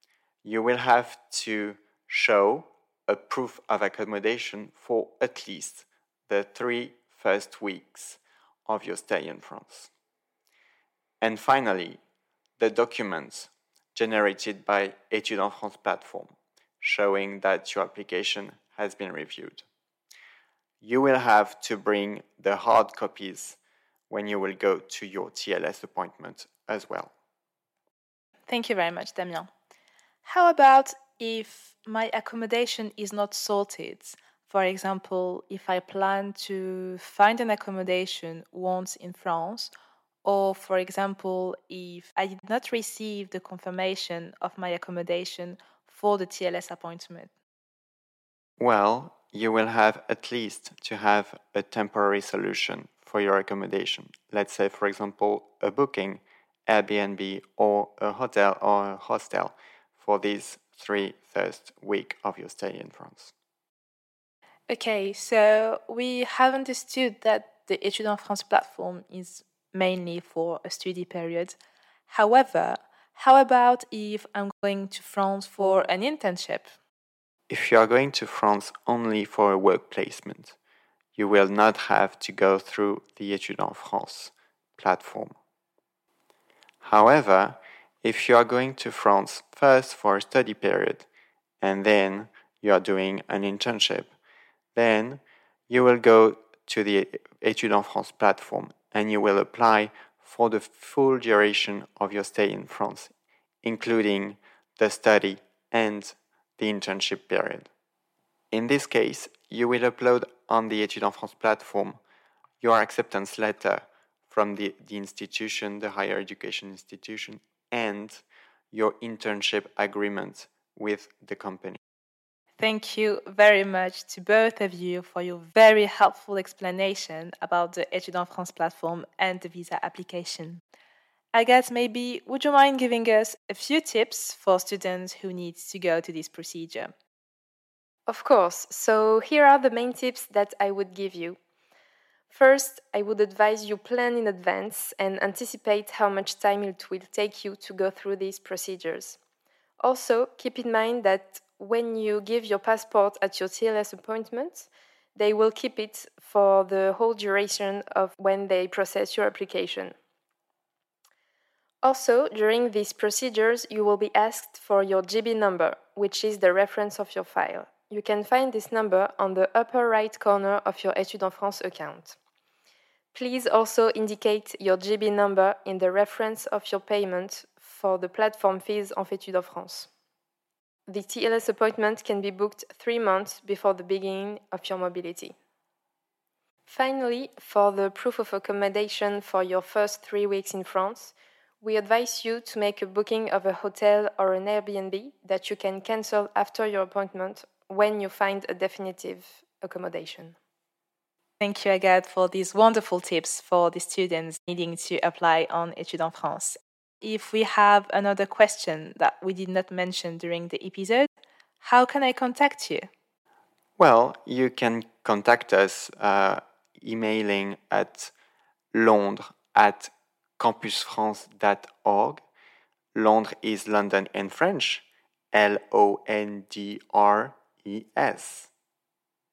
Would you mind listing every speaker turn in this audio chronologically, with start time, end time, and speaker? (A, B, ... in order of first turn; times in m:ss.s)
0:00.4-0:09.9 A
0:11.2-0:12.0 A
0:12.6-0:19.6 A
0:20.8-0:23.6 A
0:24.1-0:27.1 A
0:28.5-0:29.5 B
0:30.2-0:39.7 B
0:40.2-0:47.3 B
0:48.6-1:03.3 A
1:04.7-1:11.6 B
1:12.1-1:16.7 B
1:17.5-1:20.6 A
1:21.2-1:25.4 A
1:26.8-1:31.1 A
1:31.6-1:34.1 A
1:34.7-1:47.7 A
1:48.5-1:52.0 A
1:52.6-2:01.8 A
2:02.6-2:10.6 B
2:11.3-2:16.9 B
2:18.1-2:21.4 C
2:22.3-2:29.2 C
2:29.8-2:40.0 C
2:41.8-2:52.2 C
2:53.1-2:59.9 C
3:00.9-3:05.4 C
3:06.7-3:20.4 C
3:21.4-3:31.1 B
3:31.6-3:32.8 B
3:33.8-3:38.1 A
3:38.7-3:42.2 A
3:42.9-3:48.5 A